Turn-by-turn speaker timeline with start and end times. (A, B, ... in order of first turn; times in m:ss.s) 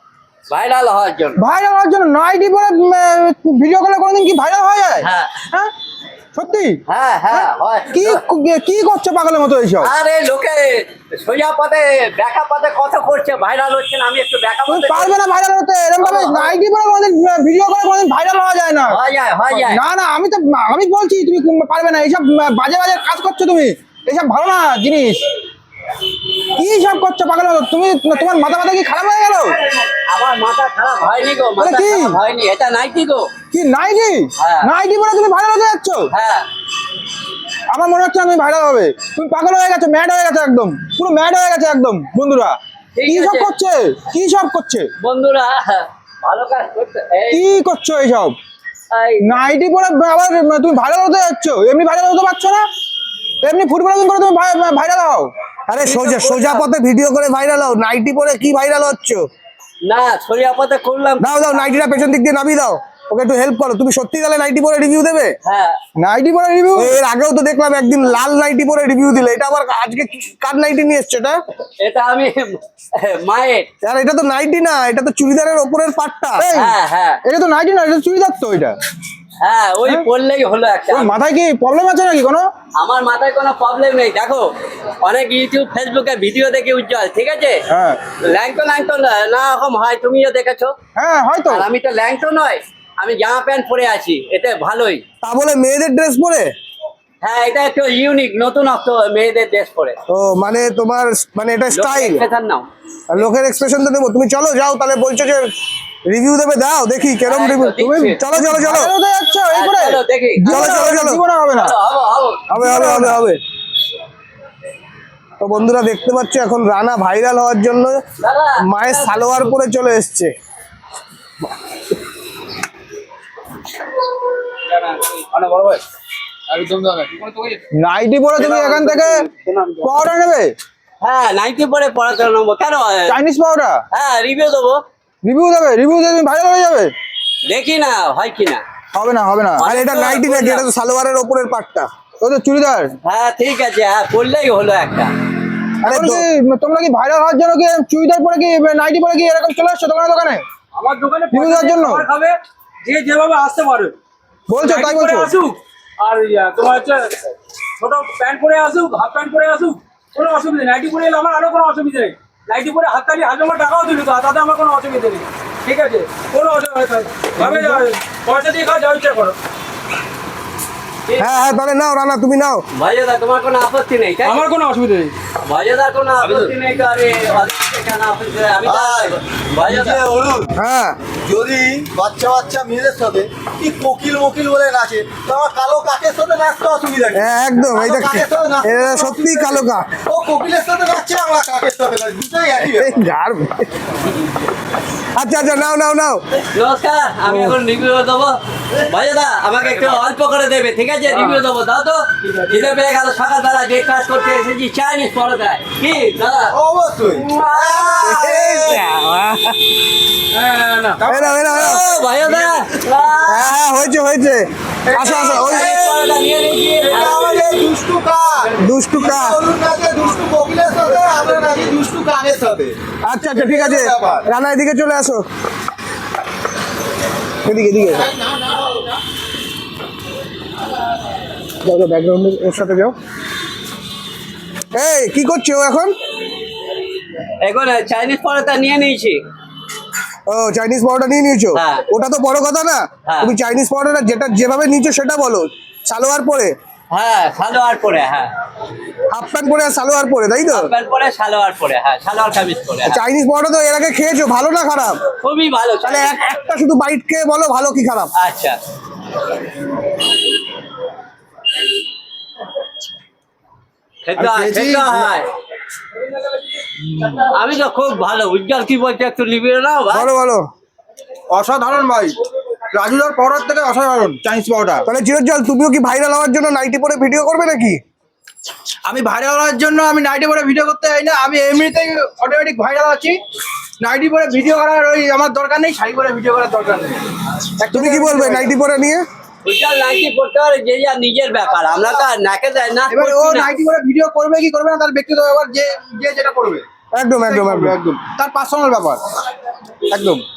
0:00.5-0:01.4 A
0:01.4-0:05.7 B
0:05.0-0:05.5 A
0:06.4-0:06.8 B
0:06.9-0:08.2 A
0:07.3-0:09.9 B
0:09.8-0:15.2 A
0:14.7-0:19.0 B
0:16.0-0:16.6 A
0:18.9-0:19.8 A
0:19.5-0:25.2 B
0:26.6-0:29.6 B
0:30.1-0:33.3 A
0:31.6-0:32.2 B
0:33.5-0:36.1 B
0:34.4-0:34.7 A
0:36.1-0:36.5 A
0:37.7-0:44.9 B
0:43.0-0:43.5 A
0:45.0-0:47.5 A
0:47.3-0:48.4 B
0:48.9-0:49.3 A
0:49.2-0:52.6 B
0:53.4-0:55.3 B
0:55.7-0:59.2 C
0:55.8-0:56.7 A
0:59.8-1:01.6 A
1:01.2-1:05.4 C
1:05.4-1:05.8 A
1:06.0-1:06.9 B
1:06.8-1:11.4 C
1:11.8-1:13.7 A
1:13.8-1:16.5 C
1:16.4-1:18.8 B
1:16.4-1:17.2 A
1:19.4-1:21.1 A
1:20.9-1:22.5 B
1:22.8-1:27.6 A
1:27.7-1:28.0 B
1:28.2-1:30.7 A
1:31.0-1:31.7 B
1:31.5-1:35.0 A
1:35.2-1:36.5 C
1:37.2-1:40.0 A
1:40.1-1:42.2 C
1:41.7-1:42.7 A
1:43.1-1:45.5 C
1:46.1-1:48.9 C
1:47.3-1:48.2 A
1:48.3-1:51.8 B
1:49.5-1:50.8 A
1:50.5-1:51.2 C
1:51.5-1:52.5 A
1:52.5-1:53.2 B
1:52.5-1:53.4 C
1:55.4-1:58.0 C
1:58.2-1:58.9 A
1:58.6-2:00.3 C
2:04.7-2:05.8 D
2:06.5-2:07.6 D
2:07.8-2:09.2 B
2:08.4-2:10.0 A
2:09.8-2:10.5 B
2:11.0-2:13.2 A
2:13.1-2:13.8 B
2:13.9-2:14.8 A
2:15.2-2:16.9 B
2:17.4-2:18.6 A
2:18.9-2:19.6 B
2:19.6-2:20.7 A
2:19.6-2:21.9 C
2:22.2-2:22.9 B
2:23.0-2:25.1 A
2:25.8-2:30.4 B
2:25.8-2:26.2 C
2:30.7-2:33.9 D
2:31.3-2:32.1 B
2:34.5-2:35.3 B
2:34.6-2:49.4 D
2:51.1-2:51.4 A
2:51.2-2:52.6 C
2:52.7-2:54.4 A
2:54.2-2:55.1 D
2:55.4-3:00.0 A
2:56.2-2:56.5 D
2:58.6-3:00.5 E
3:00.6-3:01.0 C
3:01.2-3:13.0 E
3:07.2-3:10.0 C
3:12.7-3:13.7 C
3:15.2-3:16.2 C
3:16.5-3:26.6 A
3:17.3-3:17.6 C
3:26.5-3:28.8 E
3:27.1-3:29.6 A
3:28.1-3:28.8 C
3:30.3-3:31.1 D
3:31.0-3:31.8 C
3:31.5-3:33.5 A
3:33.3-3:35.8 C
3:34.9-3:36.0 E
3:34.9-3:37.4 A
3:36.9-3:42.8 E
3:38.6-3:39.4 C
3:43.0-3:45.2 C
3:43.3-3:44.3 E
3:47.4-3:48.1 C
3:48.0-3:48.6 E
3:51.6-3:53.0 C
3:54.7-3:55.9 C
3:57.4-3:59.2 A
4:00.3-4:06.5 C
4:01.6-4:01.9 A
4:03.1-4:03.3 A
4:06.9-4:08.3 A
4:09.1-4:10.7 C
4:10.5-4:13.0 A
4:12.9-4:15.0 C
4:15.2-4:16.1 A
4:15.8-4:18.1 C
4:18.2-4:18.6 A
4:24.0-4:25.3 A
4:24.2-4:25.1 B
4:27.0-4:30.1 A
4:29.9-4:30.5 C
4:31.3-4:32.2 B
4:32.7-4:34.8 B
4:34.8-4:37.8 C
4:38.9-4:43.2 B
4:43.8-4:47.0 B
4:47.6-4:48.5 B
4:47.7-4:49.0 C
4:49.4-4:53.5 A
4:52.9-4:56.6 B
4:56.9-4:57.8 C
4:57.3-4:59.0 B
4:59.9-5:00.2 B